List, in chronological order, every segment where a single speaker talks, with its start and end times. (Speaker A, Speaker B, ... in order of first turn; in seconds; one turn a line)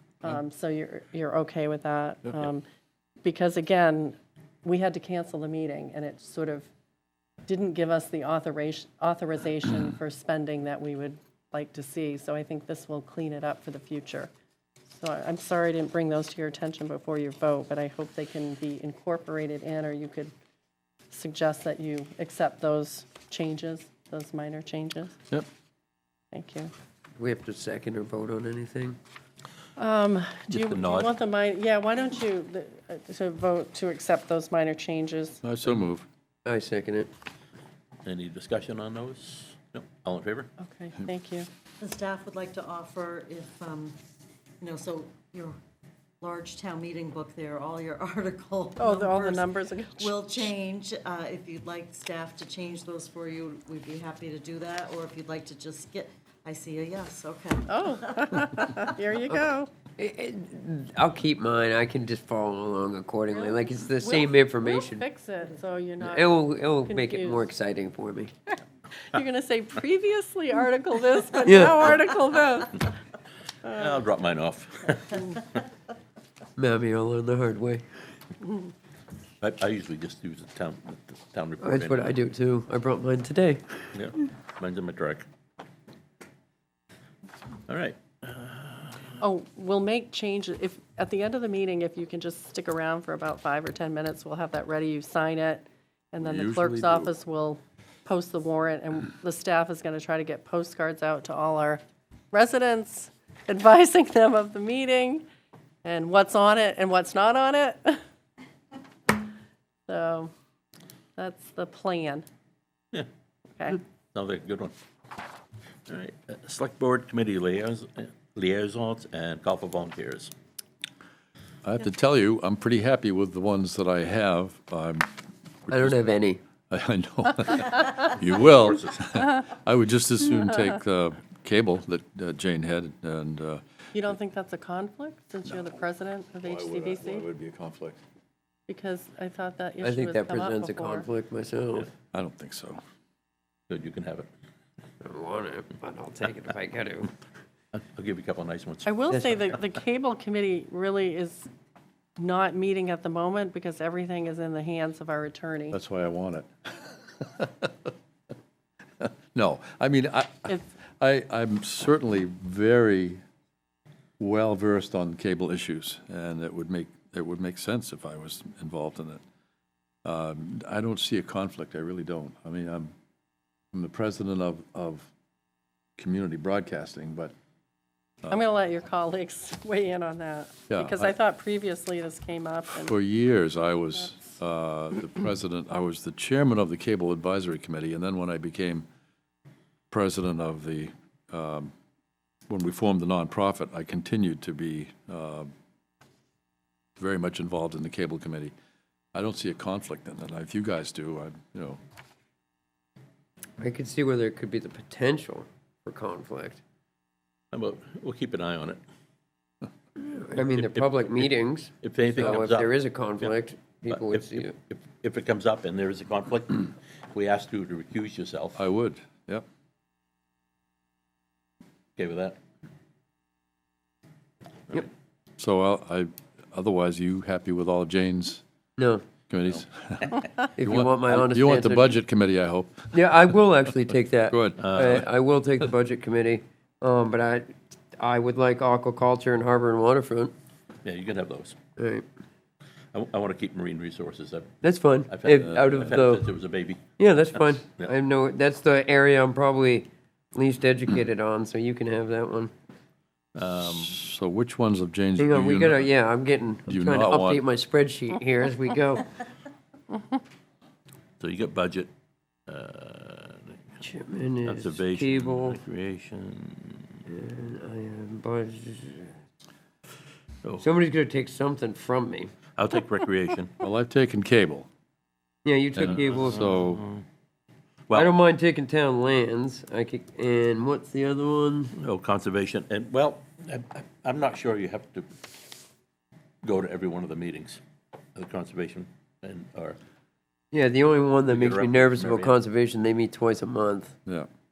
Speaker A: 0.2-2.6
Speaker A: 3.2-6.7
Speaker A: 7.5-14.3
Speaker A: 14.9-20.3
Speaker A: 21.1-25.2
Speaker A: 26.3-26.7
Speaker B: 27.2-29.0
Speaker A: 29.8-35.4
Speaker C: 30.5-31.1
Speaker D: 35.4-36.0
Speaker B: 36.4-37.1
Speaker C: 38.0-40.5
Speaker A: 40.6-41.5
Speaker E: 41.8-43.9
Speaker E: 44.6-45.6
Speaker E: 46.2-58.8
Speaker A: 48.8-50.1
Speaker A: 57.7-59.7
Speaker B: 60.0-65.0
Speaker A: 63.3-67.5
Speaker B: 66.0-68.3
Speaker A: 69.0-72.9
Speaker B: 71.4-71.9
Speaker C: 73.7-75.6
Speaker B: 76.6-77.8
Speaker C: 79.4-82.2
Speaker B: 81.6-83.8
Speaker C: 83.9-85.3
Speaker C: 87.7-89.0
Speaker A: 89.2-105.2
Speaker D: 96.2-97.1
Speaker A: 105.8-108.0
Speaker A: 109.9-110.3
Speaker A: 111.2-112.2
Speaker C: 114.1-114.7
Speaker C: 115.9-120.3
Speaker D: 121.6-125.1
Speaker D: 125.7-126.2
Speaker B: 125.7-126.4
Speaker D: 126.7-133.6
Speaker C: 128.4-129.0
Speaker A: 133.9-137.2
Speaker D: 136.4-138.0
Speaker A: 138.7-141.1
Speaker B: 139.8-141.9
Speaker D: 142.1-142.8
Speaker C: 143.7-144.3
Speaker B: 145.0-147.1
Speaker C: 147.7-149.1
Speaker A: 148.8-151.5
Speaker A: 152.2-155.8
Speaker D: 155.7-157.9
Speaker D: 159.0-163.2
Speaker D: 164.2-169.2
Speaker D: 170.0-172.9
Speaker D: 173.7-175.1
Speaker D: 176.0-177.3
Speaker A: 178.3-182.9
Speaker D: 180.7-181.1
Speaker D: 182.7-188.8
Speaker D: 189.9-191.7
Speaker D: 192.5-195.5
Speaker D: 197.0-198.5
Speaker D: 199.1-201.8
Speaker B: 203.6-206.6
Speaker C: 207.5-208.8
Speaker B: 210.0-214.5
Speaker C: 210.3-218.6
Speaker D: 218.6-219.4
Speaker C: 222.0-222.4
Speaker D: 225.4-228.4
Speaker B: 228.8-229.0
Speaker D: 229.3-233.1
Speaker B: 230.6-231.9
Speaker B: 232.9-240.3
Speaker D: 234.3-235.1
Speaker C: 234.6-235.0
Speaker C: 240.8-241.6
Speaker B: 241.8-242.0
Speaker C: 242.9-247.0
Speaker B: 244.6-246.2
Speaker B: 247.0-252.5
Speaker C: 253.3-253.9
Speaker D: 253.8-255.9
Speaker B: 255.2-259.1
Speaker D: 256.7-257.4
Speaker C: 261.2-261.9
Speaker C: 262.5-263.6
Speaker B: 263.8-265.6
Speaker C: 264.4-267.0
Speaker B: 267.1-269.1
Speaker B: 270.6-272.3
Speaker C: 272.6-273.6
Speaker D: 273.6-274.7
Speaker B: 275.4-276.5
Speaker D: 275.7-276.8
Speaker C: 275.8-277.0
Speaker B: 277.9-281.7
Speaker C: 281.8-285.1
Speaker C: 286.4-287.6
Speaker C: 288.1-289.8
Speaker B: 290.5-293.9
Speaker C: 291.3-292.4